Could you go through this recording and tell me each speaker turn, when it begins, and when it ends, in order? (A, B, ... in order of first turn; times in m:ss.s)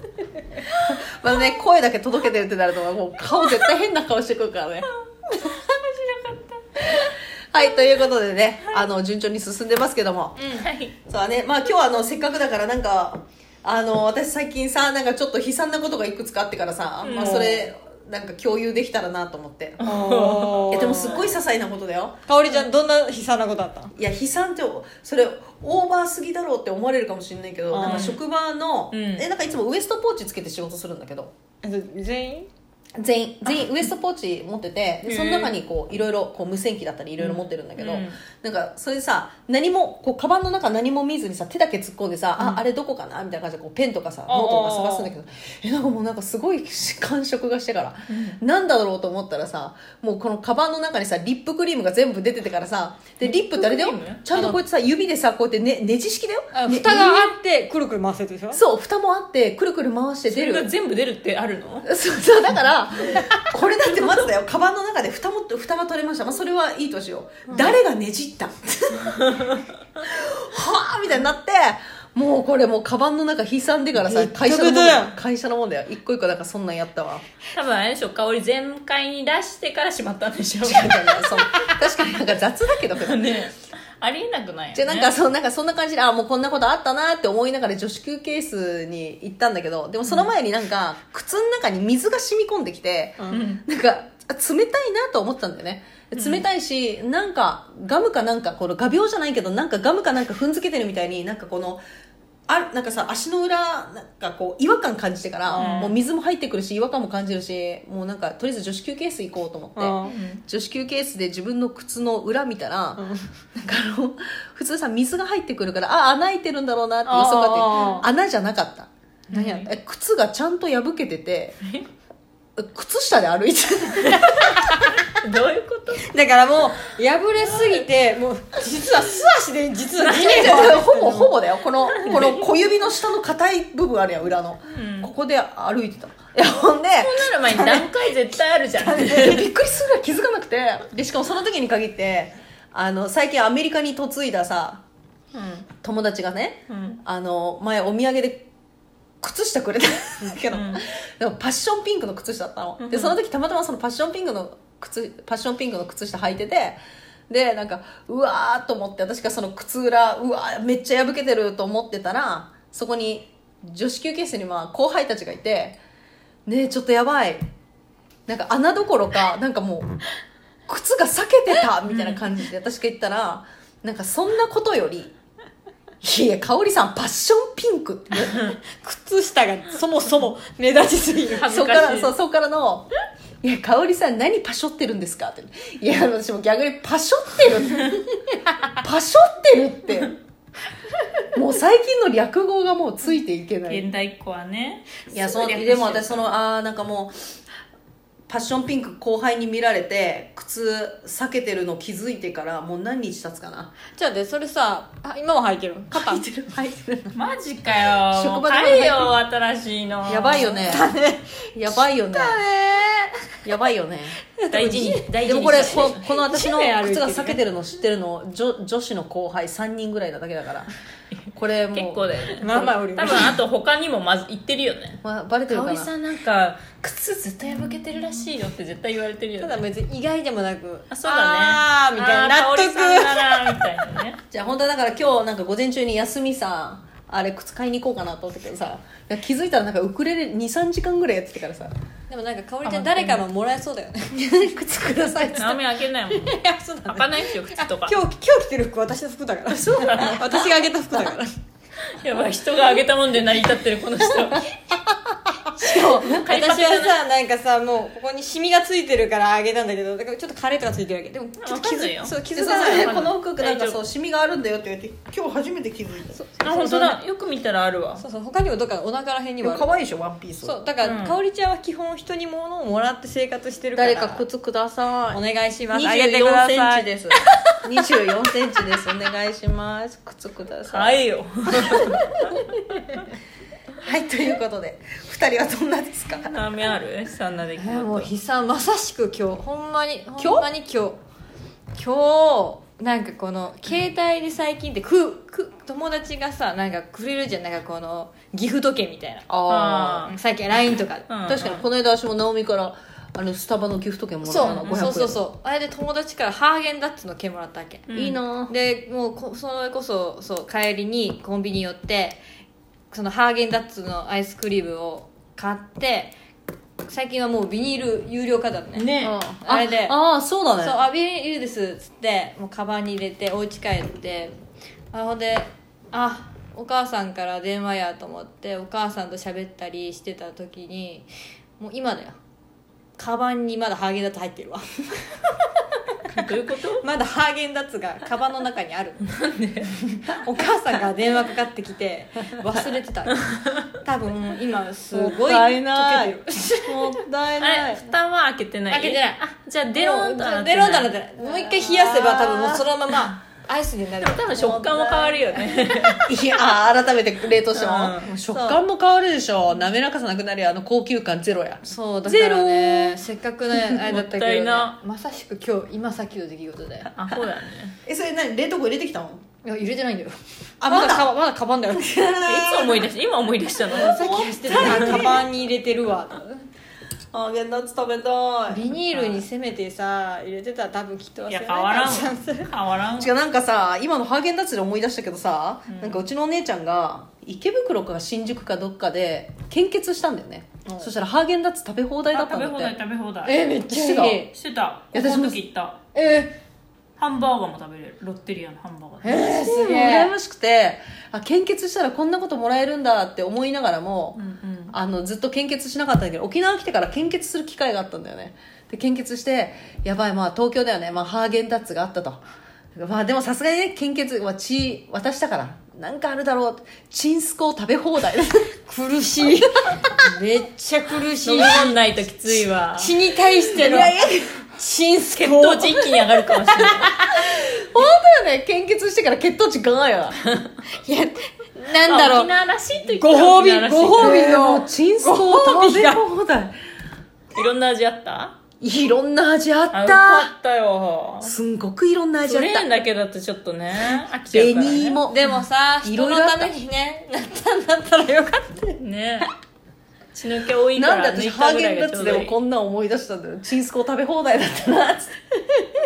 0:00.9-0:04.9 A
0:05.4-0:07.0 B
0:06.9-0:10.5 A
0:10.4-0:10.7 C
0:10.6-0:10.9 B
0:11.0-0:19.8 A
0:17.0-0:17.5 B
0:17.0-0:17.7 C
0:19.8-0:21.3 B
0:19.8-0:21.3 C
0:20.7-0:22.2 A
0:22.3-0:23.9 C
0:24.0-0:31.3 A
0:27.7-0:28.2 C
0:27.8-0:28.2 B
0:28.9-0:29.2 B
0:31.6-0:32.5 C
0:33.0-0:57.3 A
0:35.0-0:35.6 B
0:37.2-0:38.2 B
0:44.3-0:45.1 C
0:48.1-0:48.4 B
0:53.4-0:54.2 B
0:54.3-0:54.6 C
0:56.5-0:58.6 C
0:58.5-1:00.7 A
1:00.3-1:01.9 B
1:01.8-1:09.2 A
1:09.2-1:09.6 B
1:10.0-1:17.2 A
1:14.0-1:15.2 C
1:17.5-1:21.4 B
1:20.6-1:23.4 A
1:22.9-1:25.2 B
1:24.7-1:41.8 A
1:30.0-1:30.3 B
1:33.2-1:33.4 C
1:33.3-1:33.6 B
1:36.1-1:36.4 B
1:42.5-1:53.0 A
1:45.5-1:46.0 B
1:45.5-1:45.9 C
1:49.8-1:50.1 C
1:50.0-1:50.4 B
1:53.0-1:53.3 C
1:53.5-1:58.9 A
1:57.0-1:58.0 C
1:57.7-1:58.0 B
1:59.3-1:59.7 B
1:59.3-1:59.7 C
1:59.6-2:01.6 A
2:02.6-2:04.6 A
2:05.0-2:06.0 B
2:06.0-2:11.3 C
2:10.0-2:10.8 B
2:10.2-2:17.3 A
2:11.9-2:12.4 B
2:14.7-2:15.1 B
2:17.0-2:19.5 B
2:17.5-2:18.0 C
2:18.8-2:19.4 C
2:19.0-2:24.8 A
2:25.3-2:25.7 B
2:25.8-2:28.5 A
2:26.7-2:27.0 B
2:29.2-2:36.8 A
2:30.5-2:30.8 B
2:32.8-2:33.2 B
2:37.3-2:45.8 A
2:46.4-2:47.4 A
2:48.3-2:50.0 A
2:50.7-2:55.1 A
2:51.9-2:52.2 B
2:56.0-2:58.4 A
2:58.7-3:01.8 C
3:01.3-3:02.1 B
3:01.5-3:02.9 A
3:03.4-3:08.1 A
3:08.7-3:10.1 A
3:11.3-3:13.8 A
3:13.6-3:16.3 B
3:15.1-3:17.1 A
3:18.3-3:23.7 A
3:23.9-3:26.2 C
3:25.9-3:27.1 A
3:27.1-3:30.7 B
3:28.1-3:29.1 A
3:30.1-3:30.9 A
3:30.7-3:33.1 C
3:31.5-3:32.4 A
3:33.4-3:34.2 A
3:34.4-3:37.4 C
3:34.5-3:36.0 B
3:35.2-3:40.7 A
3:41.3-3:42.6 A
3:41.7-3:49.6 B
3:42.4-3:43.3 C
3:45.0-3:45.9 A
3:49.4-3:53.7 C
3:50.9-3:54.2 B
3:54.3-4:01.7 A
4:02.1-4:04.2 C
4:02.6-4:03.2 B
4:04.1-4:05.6 A
4:05.3-4:08.0 B
4:06.1-4:11.4 C
4:09.5-4:10.5 B
4:11.9-4:14.5 B
4:15.6-4:16.2 A
4:16.0-4:17.0 B
4:16.1-4:23.1 C
4:21.4-4:23.8 B
4:22.3-4:26.9 A
4:26.2-4:27.0 C
4:26.4-4:28.0 B
4:28.0-4:29.7 C
4:29.4-4:30.6 A
4:30.4-4:34.2 C
4:30.8-4:31.2 B
4:33.7-4:41.0 A
4:35.1-4:36.9 C
4:40.7-4:43.0 B
4:43.8-4:46.3 A
4:46.2-4:48.1 B
4:47.6-4:51.0 C
4:50.2-4:50.5 A
4:51.7-4:59.3 C
4:59.3-5:00.1 A
4:59.5-5:00.1 B
5:00.0-5:01.1 C
5:01.1-5:01.6 B
5:01.3-5:05.2 A
5:04.2-5:07.9 C
5:04.4-5:04.9 B
5:07.9-5:08.2 B
5:07.9-5:08.5 A
5:08.5-5:12.2 C
5:12.9-5:16.1 C
5:16.9-5:19.9 C
5:18.7-5:19.2 B
5:19.0-5:20.8 A
5:20.6-5:24.3 C
5:24.9-5:32.2 C
5:33.0-5:35.2 C
5:36.1-5:36.8 B
5:36.8-5:39.0 C
5:39.0-5:39.8 B
5:40.1-5:46.9 C
5:43.1-5:43.6 B
5:44.9-5:47.8 A
5:47.4-5:50.9 B
5:48.7-5:49.2 C
5:49.7-5:56.1 C
5:51.2-5:52.7 A
5:54.0-5:56.0 B
5:56.1-6:03.0 A
5:57.6-5:58.6 C
5:57.7-5:57.9 B
6:01.6-6:06.9 C
6:03.8-6:04.8 B
6:06.9-6:07.8 B
6:07.8-6:09.2 A
6:09.4-6:12.0 C
6:10.6-6:11.1 A
6:11.7-6:12.9 A
6:12.2-6:15.0 B
6:13.7-6:15.2 A
6:13.7-6:16.4 C
6:17.1-6:18.7 A
6:18.5-6:22.5 C
6:18.9-6:19.2 B
6:21.3-6:23.1 B
6:23.0-6:32.7 A
6:25.7-6:26.1 B
6:30.6-6:30.9 C
6:32.1-6:33.3 B
6:33.2-6:34.3 C
6:33.5-6:34.3 A
6:34.3-6:35.8 B
6:34.9-6:35.4 A
6:35.9-6:36.4 C
6:37.0-6:39.3 B
6:39.0-6:40.1 C
6:39.3-6:44.2 A
6:44.2-6:44.7 B
6:44.7-6:52.2 A
6:52.7-6:58.5 A
6:58.6-7:01.8 C
6:59.2-6:59.9 A
7:01.2-7:04.0 B
7:02.7-7:07.1 C
7:03.6-7:04.4 A
7:05.2-7:06.9 B
7:07.2-7:10.2 A
7:10.8-7:16.0 C
7:11.8-7:14.2 B
7:14.0-7:16.5 A
7:17.3-7:18.4 B
7:18.6-7:20.3 A
7:19.7-7:21.3 B
7:21.2-7:22.7 A
7:22.2-7:25.0 B
7:24.2-7:25.3 A
7:25.1-7:28.8 C
7:25.8-7:26.5 A
7:28.8-7:29.3 B
7:30.1-7:32.3 B
7:30.8-7:35.3 A